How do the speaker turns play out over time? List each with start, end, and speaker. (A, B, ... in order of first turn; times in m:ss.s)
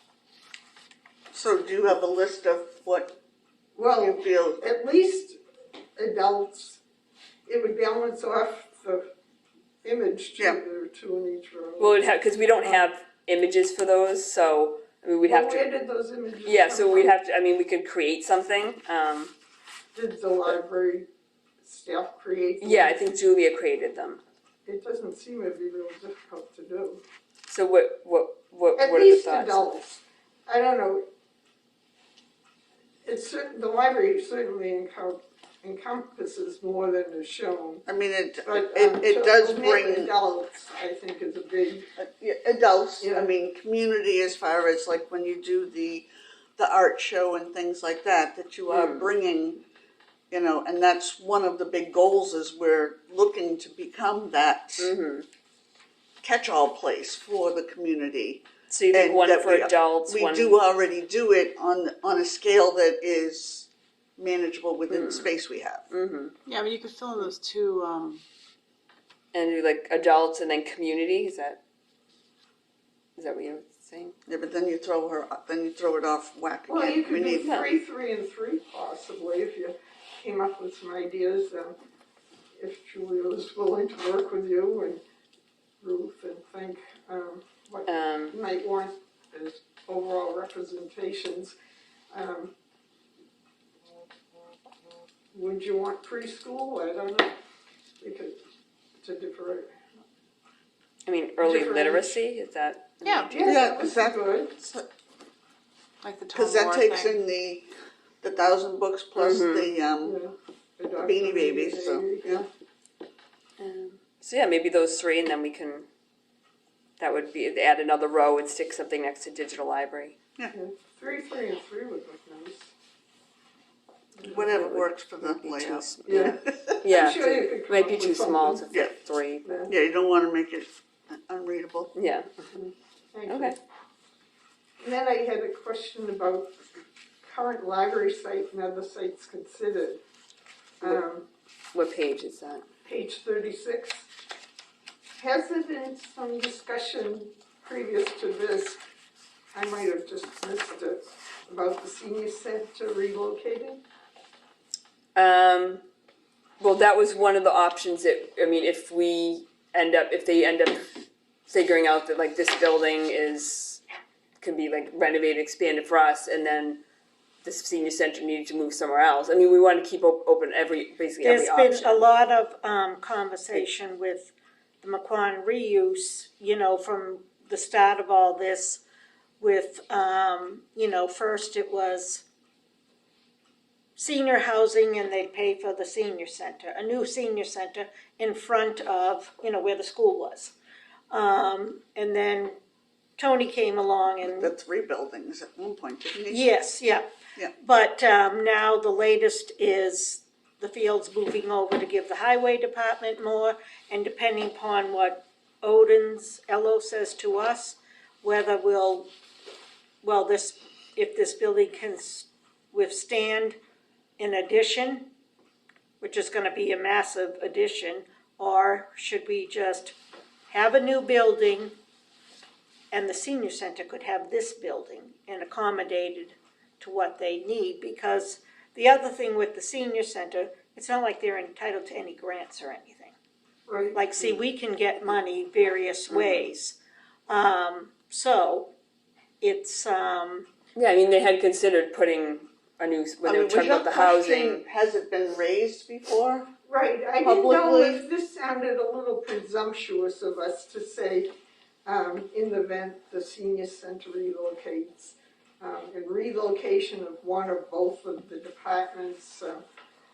0:01.3-0:03.2 A
0:03.8-0:05.4 B
0:04.0-0:04.6 A
0:06.0-0:06.8 B
0:07.4-0:09.1 B
0:09.8-0:12.0 B
0:11.8-0:15.7 C
0:15.2-0:17.1 B
0:16.4-0:19.3 C
0:19.9-0:21.1 B
0:21.6-0:23.2 B
0:22.6-0:24.2 C
0:24.6-0:27.0 B
0:27.5-0:29.7 C
0:28.8-0:31.0 B
0:33.0-0:37.8 B
0:37.8-0:40.1 A
0:38.4-0:41.9 B
0:42.0-0:49.6 A
0:43.0-0:43.3 B
0:48.7-0:49.1 C
0:50.3-0:54.9 A
0:54.8-0:55.2 C
0:56.2-1:05.9 A
0:58.7-1:00.6 C
1:04.9-1:05.3 C
1:05.9-1:06.3 C
1:06.4-1:08.2 D
1:09.3-1:11.6 C
1:13.2-1:14.1 C
1:14.3-1:17.5 A
1:16.7-1:21.8 B
1:17.4-1:17.8 C
1:22.6-1:25.0 B
1:25.8-1:31.5 B
1:27.9-1:28.4 C
1:32.1-1:32.5 B
1:35.3-1:37.3 B
1:38.0-1:38.4 B
1:39.0-1:39.8 B
1:41.0-1:43.3 C
1:41.4-1:42.2 B
1:43.0-1:43.3 D
1:43.3-1:44.6 B
1:43.4-1:44.8 A
1:46.0-1:47.2 D
1:46.3-1:47.7 A
1:48.2-1:50.2 A
1:49.2-1:49.7 C
1:50.0-1:52.5 B
1:51.0-1:52.4 A
1:53.6-1:55.8 C
1:57.0-2:00.2 C
2:00.5-2:02.7 B
2:04.2-2:06.8 A
2:04.2-2:09.6 C
2:06.0-2:08.6 B
2:09.4-2:09.7 B
2:09.7-2:11.9 A
2:11.9-2:12.3 C
2:12.5-2:13.6 B
2:13.3-2:13.6 C
2:14.8-2:16.6 B
2:17.2-2:20.0 B
2:20.8-2:21.2 B
2:21.7-2:22.6 C
2:22.8-2:24.1 B
2:25.2-2:28.8 B
2:29.5-2:33.8 B
2:35.2-2:35.8 C
2:36.6-2:40.8 C
2:41.5-2:43.8 C
2:44.4-2:46.8 C
2:47.4-2:52.0 C
2:51.2-2:58.8 E
2:59.4-3:02.2 E
3:04.0-3:10.5 E
3:11.1-3:12.6 E
3:13.2-3:14.5 E
3:14.2-3:16.4 A
3:16.3-3:17.1 E
3:17.6-3:29.1 E
3:30.0-3:33.6 E
3:34.2-3:35.1 E
3:36.0-3:40.0 E
3:40.5-3:41.7 E
3:42.9-3:53.1 E
3:53.7-3:54.0 B
3:53.9-3:56.8 E
3:56.1-3:56.4 C
3:57.3-3:58.7 E
3:59.4-4:00.5 E
4:00.8-4:04.6 C
4:03.2-4:06.5 A
4:06.7-4:11.3 B
4:07.2-4:08.0 A
4:11.8-4:19.6 B